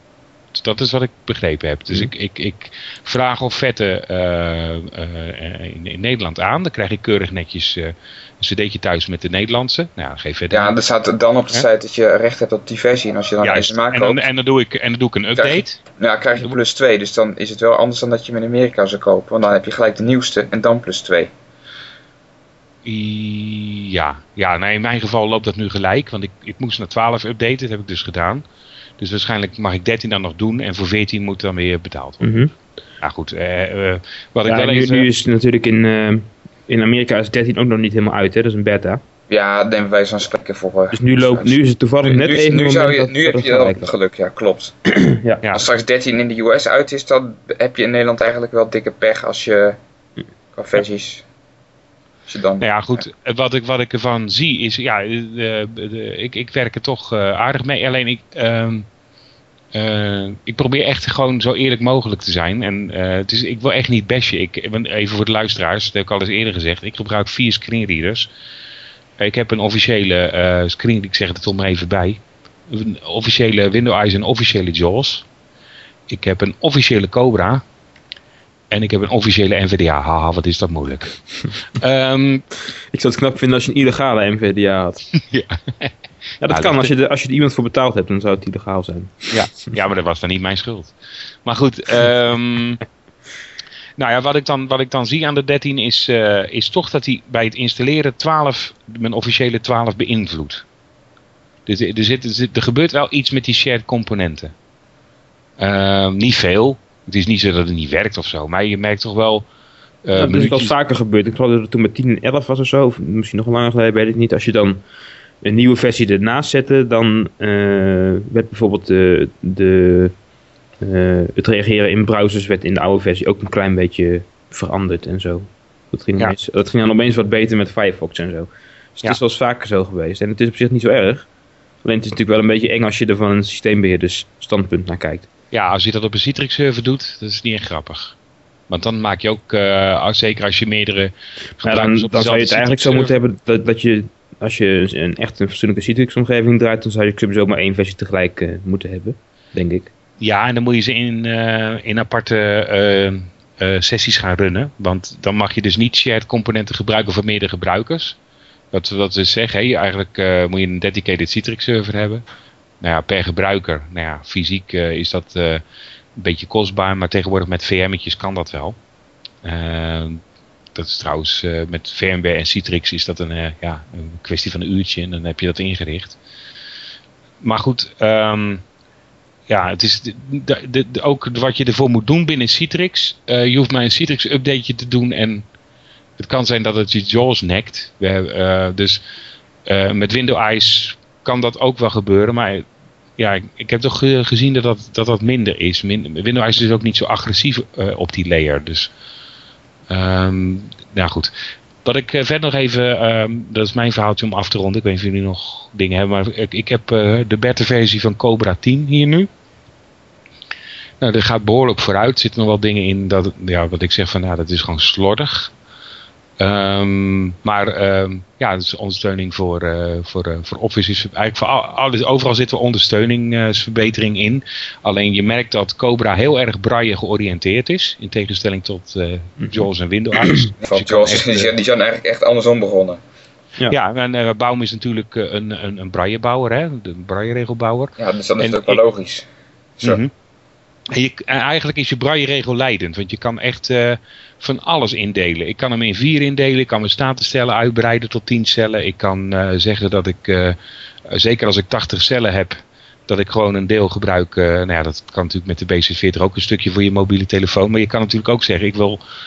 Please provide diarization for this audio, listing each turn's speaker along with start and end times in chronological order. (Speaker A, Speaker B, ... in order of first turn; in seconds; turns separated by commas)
Speaker A: 0.5-10.8, Speaker B: 10.5-14.3, Speaker A: 13.4-15.8, Speaker B: 15.4-21.3, Speaker A: 22.8-28.4, Speaker A: 29.0-32.3, Speaker C: 32.2-32.5, Speaker A: 33.0-35.1, Speaker C: 34.5-39.0, Speaker B: 39.3-44.8, Speaker C: 40.9-43.9, Speaker C: 44.9-45.4, Speaker B: 45.5-49.8, Speaker B: 50.5-51.2, Speaker B: 52.3-53.0, Speaker A: 52.6-58.9, Speaker A: 59.7-68.3, Speaker A: 69.2-75.3, Speaker A: 76.1-77.6, Speaker A: 78.7-82.5, Speaker C: 82.9-85.1, Speaker A: 85.2-85.9, Speaker C: 86.4-89.4, Speaker A: 86.5-86.9, Speaker A: 89.3-92.8, Speaker A: 94.0-100.7, Speaker A: 101.7-104.5, Speaker A: 105.6-109.5, Speaker A: 110.0-110.7, Speaker C: 110.1-114.8, Speaker C: 115.4-120.1, Speaker C: 120.8-131.3, Speaker C: 131.8-135.3, Speaker A: 135.5-138.2, Speaker A: 138.7-143.2, Speaker C: 141.6-149.9, Speaker A: 150.2-158.2, Speaker A: 158.7-162.2, Speaker A: 162.8-165.6, Speaker A: 166.2-168.8, Speaker A: 169.4-170.2, Speaker A: 170.8-176.2, Speaker A: 177.4-178.6, Speaker A: 179.5-185.5, Speaker A: 186.2-189.0, Speaker A: 189.7-192.7, Speaker A: 193.2-198.9, Speaker A: 199.9-201.3, Speaker A: 201.8-209.3, Speaker A: 211.0-215.5, Speaker A: 216.4-231.5, Speaker B: 230.6-233.0, Speaker A: 233.7-238.8, Speaker B: 238.0-239.3, Speaker A: 239.8-240.1, Speaker A: 240.9-259.0